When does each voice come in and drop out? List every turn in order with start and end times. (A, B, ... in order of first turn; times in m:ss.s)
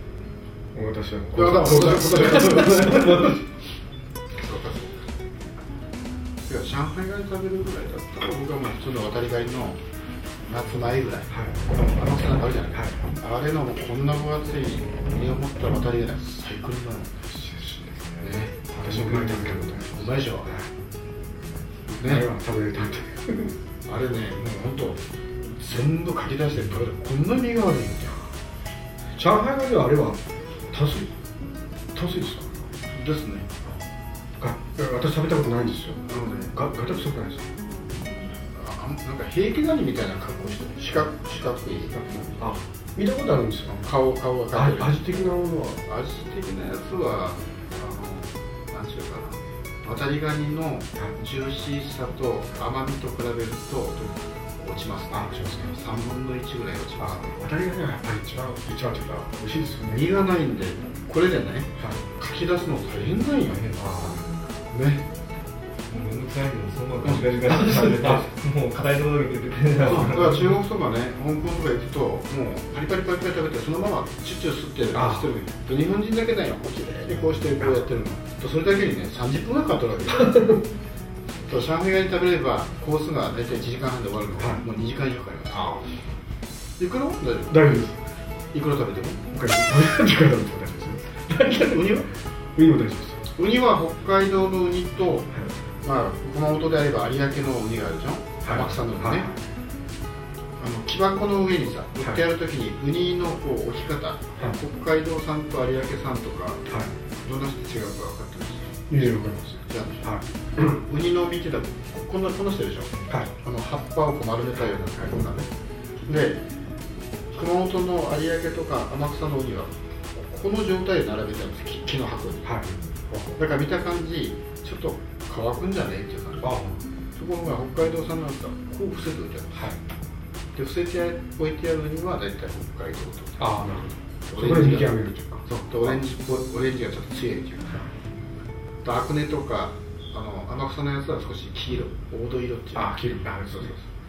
0:00.7-0:03.4 A
0:01.3-0:03.4 B
0:04.4-0:05.0 B
0:06.4-0:09.8 B
0:10.5-0:17.2 B
0:11.3-0:11.7 A
0:17.3-0:17.9 A
0:17.6-0:18.5 C
0:18.2-0:20.5 B
0:18.7-0:20.7 A
0:21.9-0:22.3 B
0:22.0-0:23.5 A
0:23.9-0:28.3 B
0:29.2-0:30.2 A
0:30.7-0:31.1 A
0:31.9-0:32.7 A
0:32.9-0:33.7 B
0:34.4-0:37.4 A
0:36.1-0:36.6 B
0:38.0-0:42.0 B
0:41.9-0:43.8 A
0:43.7-0:45.1 B
0:44.5-0:45.8 A
0:45.8-0:57.4 B
0:55.1-0:55.8 A
0:57.0-1:00.2 A
0:59.8-1:05.0 B
1:03.7-1:04.2 A
1:05.9-1:10.5 C
1:07.0-1:07.3 B
1:07.2-1:08.3 A
1:09.8-1:20.4 B
1:14.9-1:15.3 A
1:17.1-1:17.9 A
1:20.1-1:20.6 A
1:21.5-1:25.8 B
1:24.4-1:24.6 A
1:25.5-1:25.9 A
1:26.8-1:27.7 B
1:27.5-1:28.0 A
1:28.5-1:29.2 B
1:29.3-1:33.2 A
1:31.5-1:32.1 B
1:33.4-1:39.3 B
1:38.4-1:39.4 A
1:40.6-1:46.7 B
1:47.2-1:48.8 B
1:48.9-1:50.8 A
1:49.7-1:50.1 B
1:50.6-1:55.5 B
1:56.1-1:56.4 B
1:57.3-2:02.6 B
2:02.4-2:03.4 A
2:03.4-2:09.8 B
2:06.4-2:06.8 A
2:09.5-2:09.8 A
2:10.6-2:13.6 B
2:13.4-2:16.1 A
2:14.3-2:17.9 B
2:18.8-2:23.0 B
2:22.7-2:23.8 A
2:23.5-2:23.9 B